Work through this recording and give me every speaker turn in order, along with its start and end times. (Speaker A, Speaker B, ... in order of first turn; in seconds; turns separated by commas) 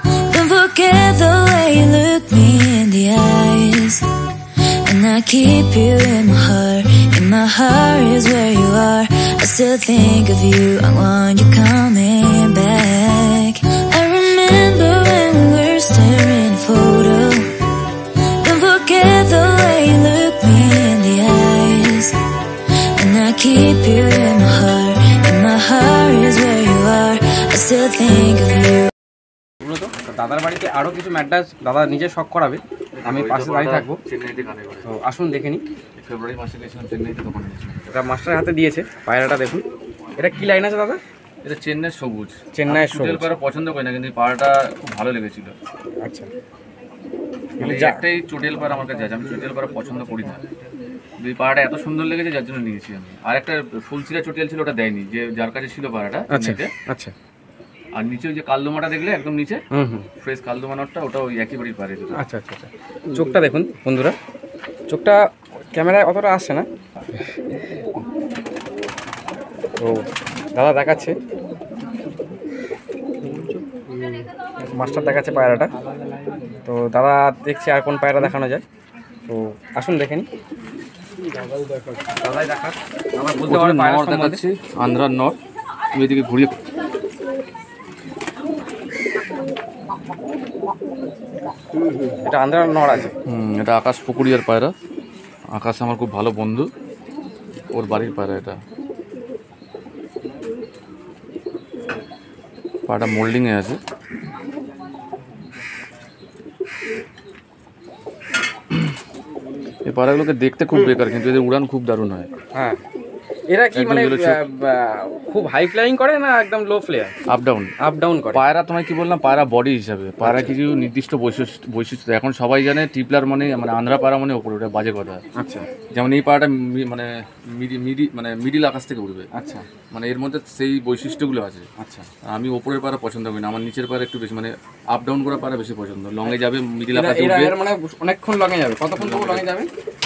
Speaker A: 0.3-4.0, Speaker A: 4.8-17.5, Speaker A: 18.4-22.1, Speaker A: 23.0-28.9, Speaker B: 29.6-34.0, Speaker C: 33.0-34.9, Speaker B: 34.9-35.6, Speaker C: 36.0-38.0, Speaker B: 37.9-39.6, Speaker B: 40.2-41.0, Speaker C: 41.4-45.5, Speaker B: 42.5-43.3, Speaker B: 46.0-46.3, Speaker B: 47.6-48.0, Speaker C: 47.6-50.4, Speaker C: 51.2-56.7, Speaker B: 56.3-57.1, Speaker C: 58.0-59.6, Speaker B: 59.7-60.1, Speaker C: 60.2-62.2, Speaker B: 62.2-64.2, Speaker B: 64.9-65.2, Speaker B: 65.7-66.7, Speaker B: 69.8-71.2, Speaker B: 74.7-75.7, Speaker B: 76.7-78.6, Speaker B: 79.3-80.3, Speaker B: 82.2-84.4, Speaker C: 83.5-85.4, Speaker C: 86.0-86.6, Speaker B: 92.2-93.1, Speaker C: 93.3-94.7, Speaker C: 95.5-96.7, Speaker C: 97.7-98.6, Speaker C: 102.9-103.8, Speaker C: 109.9-112.3, Speaker B: 113.5-117.2, Speaker C: 113.7-114.4, Speaker C: 117.3-117.7, Speaker B: 117.8-118.4, Speaker C: 118.3-125.2, Speaker B: 120.2-120.5, Speaker B: 125.4-125.7, Speaker C: 126.0-129.3, Speaker B: 129.3-129.7, Speaker C: 129.9-131.7, Speaker B: 131.8-132.1, Speaker C: 132.3-137.6, Speaker B: 136.9-139.7, Speaker C: 138.9-139.5